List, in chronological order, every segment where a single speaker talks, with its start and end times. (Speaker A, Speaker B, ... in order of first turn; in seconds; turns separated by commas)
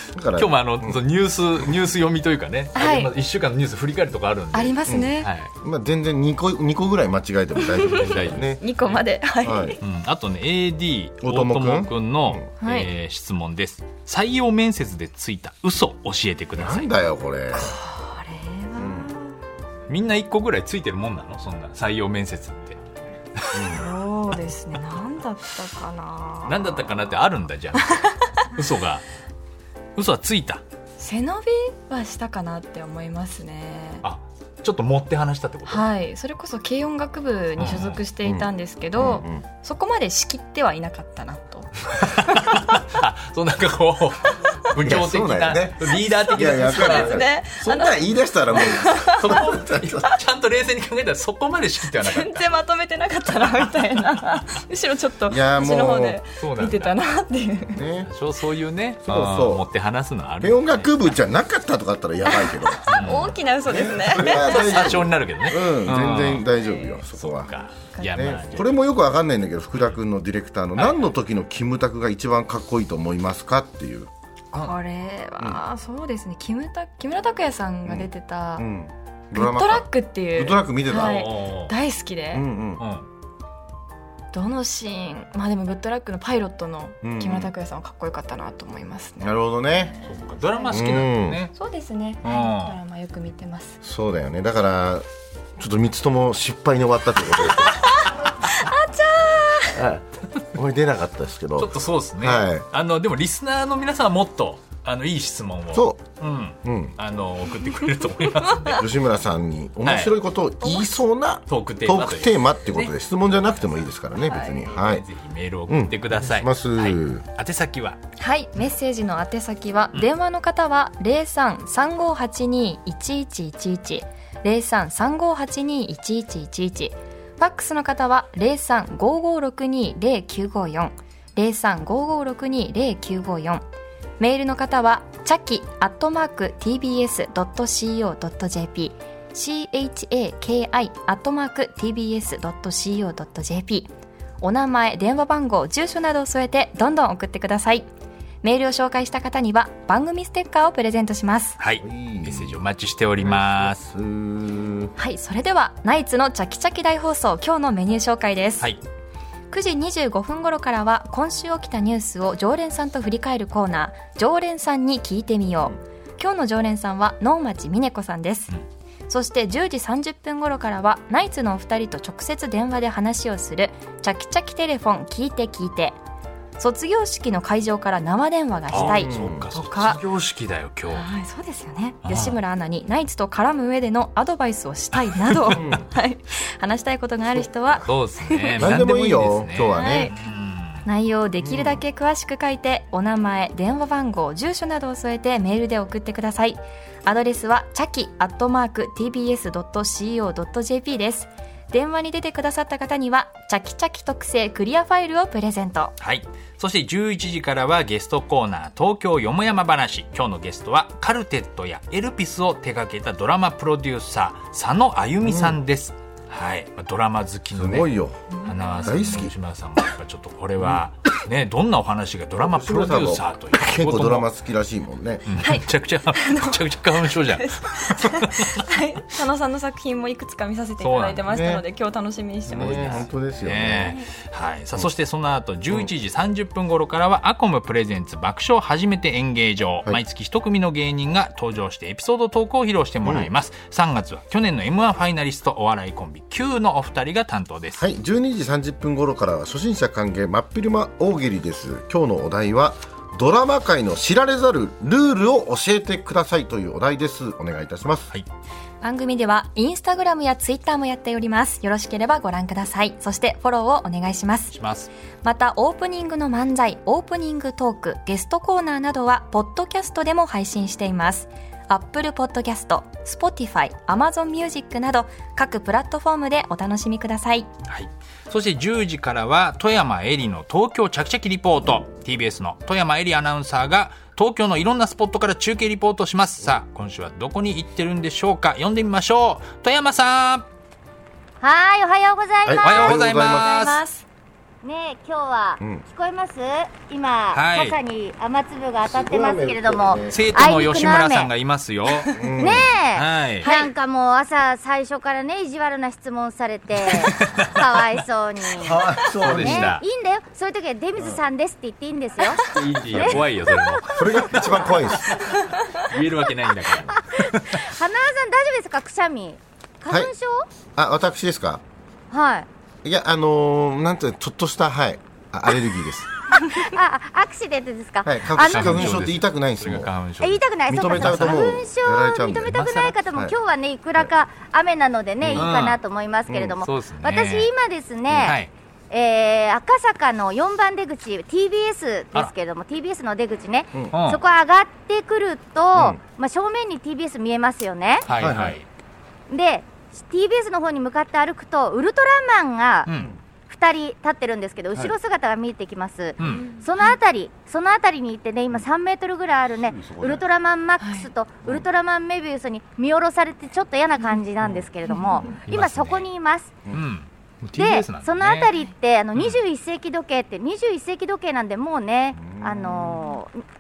Speaker A: 0.1-1.0, Speaker B: 0.3-5.5, Speaker C: 2.8-3.1, Speaker C: 4.5-5.3, Speaker A: 4.9-8.6, Speaker C: 7.6-9.8, Speaker B: 7.8-9.0, Speaker A: 9.4-9.8, Speaker B: 9.8-16.9, Speaker A: 11.2-12.5, Speaker C: 12.6-12.9, Speaker A: 16.6-17.8, Speaker C: 17.5-19.3, Speaker A: 18.8-19.1, Speaker B: 19.9-22.8, Speaker A: 23.5-23.9, Speaker C: 23.7-26.9, Speaker B: 26.5-29.1, Speaker B: 30.0-30.6, Speaker C: 31.0-34.0, Speaker B: 34.0-35.9, Speaker C: 35.7-42.7, Speaker B: 37.6-38.0, Speaker A: 38.2-39.4, Speaker B: 42.0-47.2, Speaker A: 44.8-50.1, Speaker C: 45.9-49.4, Speaker B: 48.5-52.5, Speaker C: 52.0-57.8, Speaker A: 55.3-56.2, Speaker B: 56.4-57.0, Speaker A: 57.7-58.1, Speaker B: 58.0-60.9, Speaker A: 59.0-59.6, Speaker A: 60.4-67.5, Speaker C: 62.3-64.9, Speaker B: 62.9-63.4, Speaker B: 64.1-66.5, Speaker C: 66.6-66.9, Speaker B: 67.1-68.8, Speaker C: 67.9-68.3, Speaker A: 68.1-74.1, Speaker B: 70.8-71.1, Speaker C: 74.6-78.7, Speaker A: 77.8-81.3, Speaker C: 79.3-82.5, Speaker B: 80.9-81.8, Speaker A: 82.3-82.8, Speaker B: 82.8-83.1, Speaker C: 84.3-93.8, Speaker A: 87.0-87.5, Speaker A: 89.2-90.0, Speaker B: 90.0-91.5, Speaker A: 90.7-91.4, Speaker B: 92.2-92.8, Speaker A: 93.8-95.0, Speaker A: 95.6-97.8, Speaker C: 97.7-99.8, Speaker A: 99.8-102.7, Speaker B: 101.6-108.9, Speaker A: 105.7-106.1, Speaker A: 106.6-107.0, Speaker A: 108.7-115.0, Speaker B: 109.8-110.2, Speaker B: 111.5-118.0, Speaker C: 114.2-114.6, Speaker A: 115.7-117.2, Speaker C: 118.2-133.6, Speaker C: 134.2-147.9, Speaker C: 148.4-151.6, Speaker B: 151.6-153.8, Speaker A: 151.8-152.6, Speaker A: 153.2-154.9, Speaker C: 155.0-158.7, Speaker C: 159.5-168.5, Speaker C: 169.1-176.0, Speaker C: 176.6-180.0, Speaker B: 178.7-181.1, Speaker A: 178.7-179.5, Speaker C: 180.9-188.7, Speaker B: 182.0-182.4, Speaker A: 185.6-185.9, Speaker A: 187.4-187.9, Speaker B: 187.8-190.8, Speaker A: 188.6-190.1, Speaker C: 189.7-190.2, Speaker C: 190.8-205.9, Speaker A: 191.4-191.8, Speaker B: 206.0-217.9, Speaker A: 215.2-215.6, Speaker A: 217.5-218.2, Speaker C: 218.3-219.2, Speaker B: 218.4-224.3, Speaker A: 218.8-219.3, Speaker A: 222.4-225.4, Speaker B: 225.3-228.7, Speaker C: 225.4-226.6, Speaker C: 227.2-233.1, Speaker B: 230.8-231.2, Speaker A: 231.3-231.6, Speaker A: 232.5-234.0, Speaker B: 232.7-247.9, Speaker A: 243.0-243.3, Speaker A: 247.8-258.1, Speaker C: 258.8-264.6, Speaker B: 264.5-264.9, Speaker C: 265.2-277.5, Speaker B: 277.7-290.5, Speaker D: 291.4-293.1, Speaker A: 292.4-293.6, Speaker B: 292.6-293.8, Speaker C: 293.1-294.1, Speaker D: 294.6-301.3, Speaker A: 295.6-295.8, Speaker B: 297.3-297.8, Speaker A: 298.8-300.8, Speaker B: 300.1-303.5, Speaker C: 301.9-302.2, Speaker A: 302.1-302.7, Speaker D: 302.4-313.2, Speaker C: 303.4-303.7, Speaker B: 306.8-307.7, Speaker A: 308.6-309.8, Speaker B: 309.2-309.8, Speaker C: 312.3-312.5, Speaker B: 312.5-317.7, Speaker A: 312.9-313.2, Speaker A: 313.9-315.1, Speaker D: 314.5-314.9, Speaker D: 316.7-320.5, Speaker A: 320.8-321.6, Speaker D: 322.1-322.5, Speaker A: 322.8-326.1, Speaker D: 326.3-329.1, Speaker A: 328.0-329.9, Speaker B: 328.4-331.5, Speaker D: 330.2-338.4, Speaker A: 330.7-333.4, Speaker B: 332.5-333.0, Speaker A: 335.2-335.5, Speaker B: 335.3-335.8, Speaker A: 336.3-336.6, Speaker B: 336.6-337.5, Speaker B: 338.1-338.5, Speaker D: 338.9-348.1, Speaker B: 343.9-344.2, Speaker A: 345.8-346.0, Speaker B: 348.1-348.6, Speaker A: 348.1-348.6, Speaker D: 349.3-352.9, Speaker B: 352.9-353.1, Speaker D: 353.5-366.5, Speaker B: 356.2-356.5, Speaker A: 359.6-360.3, Speaker C: 360.8-361.1, Speaker A: 364.4-364.7, Speaker C: 364.9-365.3, Speaker B: 365.4-366.1, Speaker B: 366.7-368.5, Speaker D: 367.6-373.4, Speaker B: 369.1-369.4, Speaker A: 372.1-373.2